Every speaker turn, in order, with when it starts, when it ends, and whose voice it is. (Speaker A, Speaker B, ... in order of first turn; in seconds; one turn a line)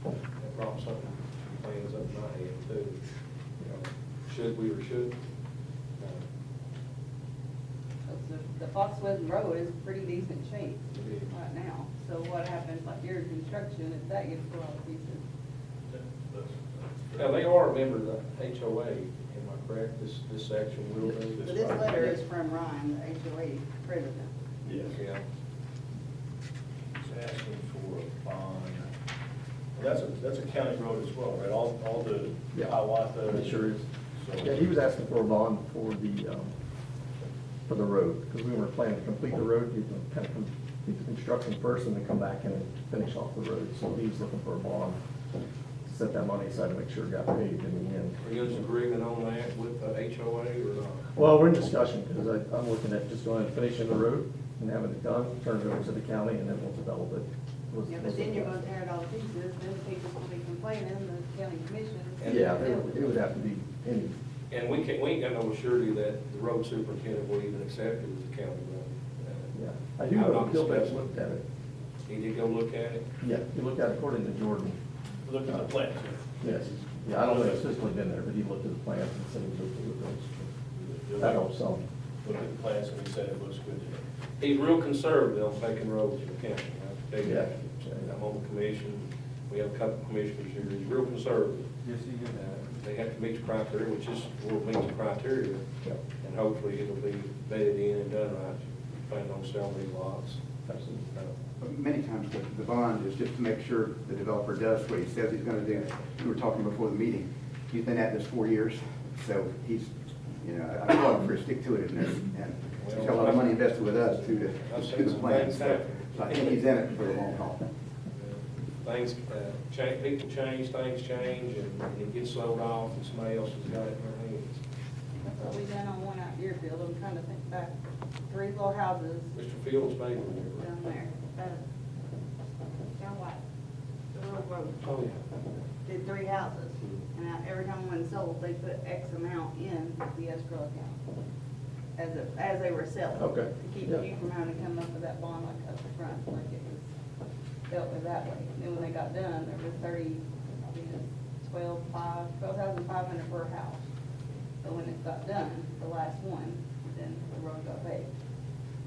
Speaker A: 0.4-3.0
Speaker A: 3.6-5.1
Speaker B: 8.1-15.2
Speaker A: 10.9-11.3
Speaker C: 15.9-17.4
Speaker A: 17.2-21.8
Speaker C: 21.3-22.1
Speaker B: 21.4-24.3
Speaker C: 24.6-25.0
Speaker A: 24.9-25.2
Speaker C: 26.9-28.8
Speaker C: 29.8-33.6
Speaker D: 33.3-33.9
Speaker C: 34.1-34.6
Speaker D: 34.4-36.5
Speaker D: 37.7-45.0
Speaker D: 45.8-48.2
Speaker A: 48.2-51.1
Speaker D: 51.1-58.6
Speaker B: 57.9-63.1
Speaker A: 62.2-62.6
Speaker D: 62.2-64.2
Speaker A: 64.5-69.5
Speaker D: 69.5-71.4
Speaker A: 70.1-70.9
Speaker A: 72.1-73.0
Speaker D: 73.2-74.8
Speaker C: 75.2-76.7
Speaker D: 76.4-80.5
Speaker C: 80.8-81.5
Speaker D: 81.2-81.8
Speaker C: 82.2-84.0
Speaker A: 84.4-91.7
Speaker D: 87.2-88.1
Speaker D: 91.8-92.3
Speaker A: 92.3-95.6
Speaker A: 96.2-100.4
Speaker D: 100.7-101.0
Speaker E: 101.6-117.7
Speaker A: 112.8-116.6
Speaker A: 118.2-124.6
Speaker B: 125.2-127.7
Speaker B: 128.3-129.3
Speaker A: 129.3-130.7
Speaker B: 130.6-131.6
Speaker B: 133.0-133.4
Speaker B: 134.1-134.9
Speaker A: 134.8-135.2
Speaker B: 135.8-141.0
Speaker B: 141.9-146.8
Speaker D: 143.1-144.0
Speaker B: 147.7-153.8
Speaker B: 154.6-158.1